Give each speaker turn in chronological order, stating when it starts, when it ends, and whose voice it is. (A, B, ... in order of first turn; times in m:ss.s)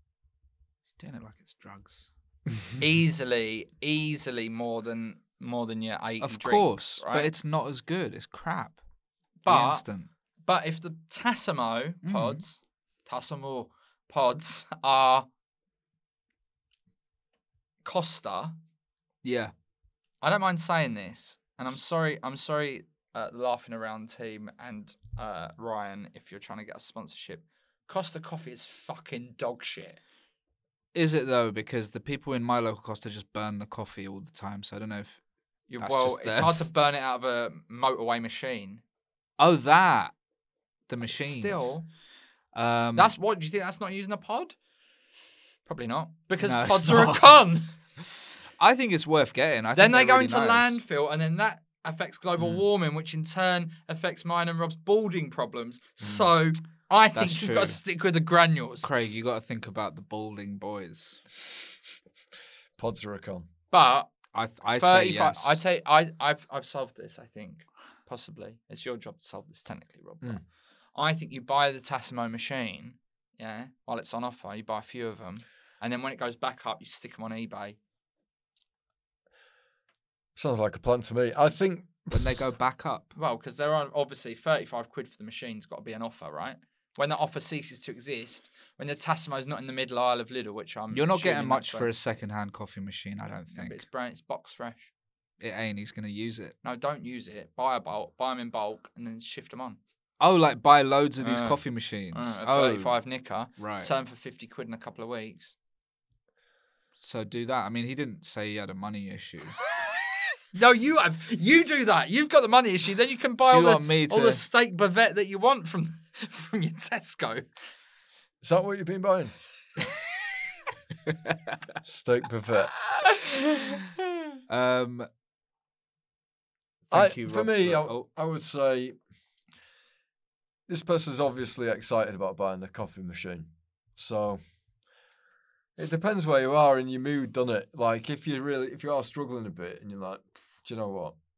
0:01.0-0:02.1 A
0:02.8-0:07.3 B
0:06.2-0:08.8 A
0:09.4-0:09.8 B
0:09.5-0:10.1 A
0:10.4-0:15.3 B
0:12.0-0:12.4 A
0:17.8-0:18.6 B
0:19.2-0:19.5 A
0:20.2-0:30.0 B
0:30.9-0:35.2 A
0:35.7-0:38.8 B
0:35.8-0:36.7 A
0:39.4-0:40.1 A
0:40.9-0:41.8 A
0:41.0-0:41.9 B
0:42.5-0:43.2 A
0:43.0-0:44.6 B
0:45.7-0:47.7 B
0:46.4-0:47.4 A
0:48.6-0:50.8 A
0:49.8-0:58.9 B
0:56.0-0:56.3 C
0:57.2-0:57.8 A
0:58.8-1:01.2 A
1:02.8-1:03.5 C
1:03.7-1:04.1 B
1:04.3-1:05.6 A
1:04.7-1:10.4 B
1:11.0-1:17.8 B
1:20.4-1:22.3 C
1:22.1-1:23.1 A
1:23.2-1:31.9 B
1:30.9-1:33.8 A
1:33.5-1:34.9 B
1:35.4-1:36.6 A
1:36.6-1:39.8 B
1:40.2-1:43.0 A
1:41.2-1:45.6 B
1:43.6-1:43.9 A
1:47.0-1:49.6 A
1:50.5-1:57.4 B
1:53.4-1:54.4 A
1:58.4-1:59.4 C
2:01.8-2:02.7 C
2:04.5-2:05.1 A
2:06.9-2:08.1 A
2:06.9-2:09.0 C
2:10.7-2:14.4 C
2:15.8-2:21.2 C